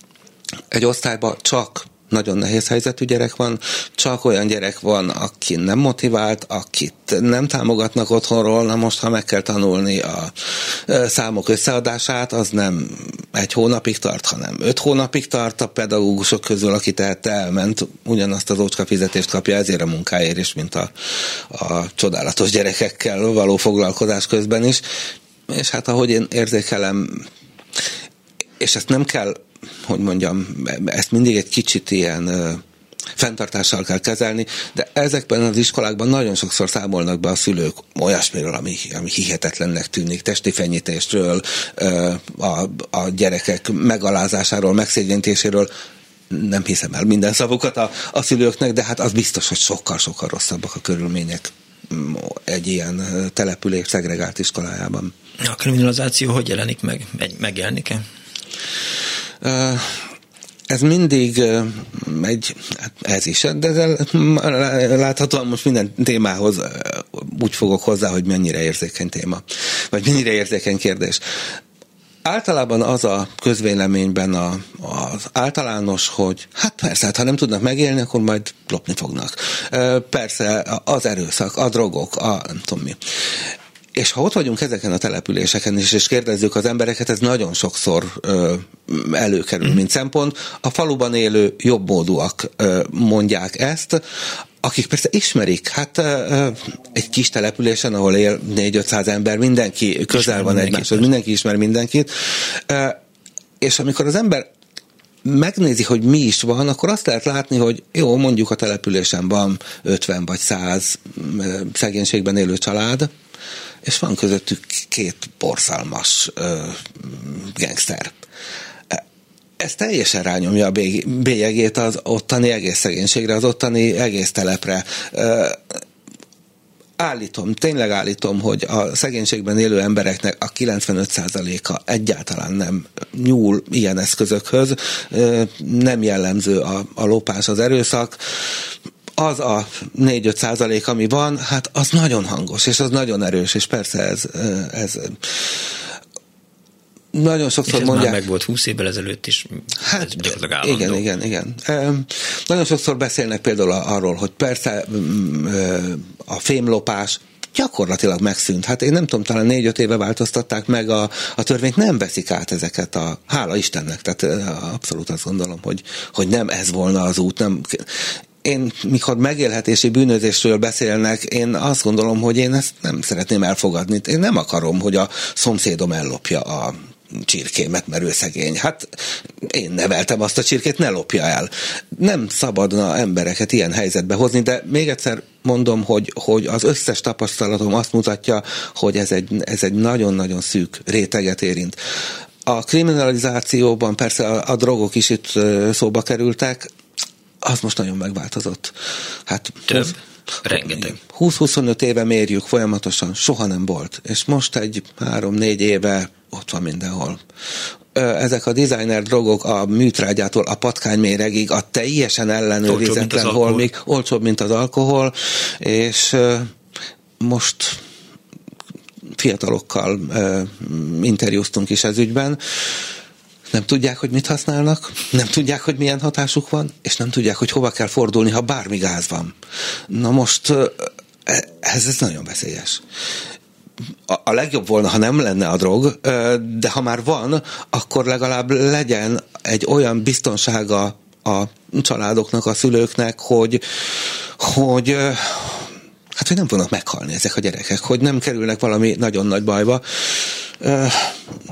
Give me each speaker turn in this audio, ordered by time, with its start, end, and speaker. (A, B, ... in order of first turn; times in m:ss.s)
0:00.7-0:24.8 A
0:25.5-0:27.3 A
0:28.6-0:32.6 A
0:33.2-0:45.7 A
0:46.3-0:55.1 A
0:55.4-0:58.0 B
0:59.4-1:00.0 A
1:00.7-1:11.2 A
1:12.2-1:23.0 A
1:24.0-1:34.0 A
1:34.6-1:43.0 A
1:40.1-1:41.1 B
1:43.6-1:44.5 A
1:45.2-1:53.1 A
1:53.8-1:58.1 A
1:59.6-2:05.8 A
2:07.0-2:25.8 A
2:27.1-2:28.2 A
2:27.7-2:31.0 B
2:29.8-3:11.8 A
3:12.4-3:16.7 A
3:17.4-3:27.2 A
3:19.7-3:21.0 B
3:27.9-3:36.5 A
3:32.6-3:33.7 B
3:37.2-3:37.8 A
3:39.2-3:42.4 A
3:43.5-3:49.3 A
3:49.9-3:52.8 A
3:54.1-4:11.2 A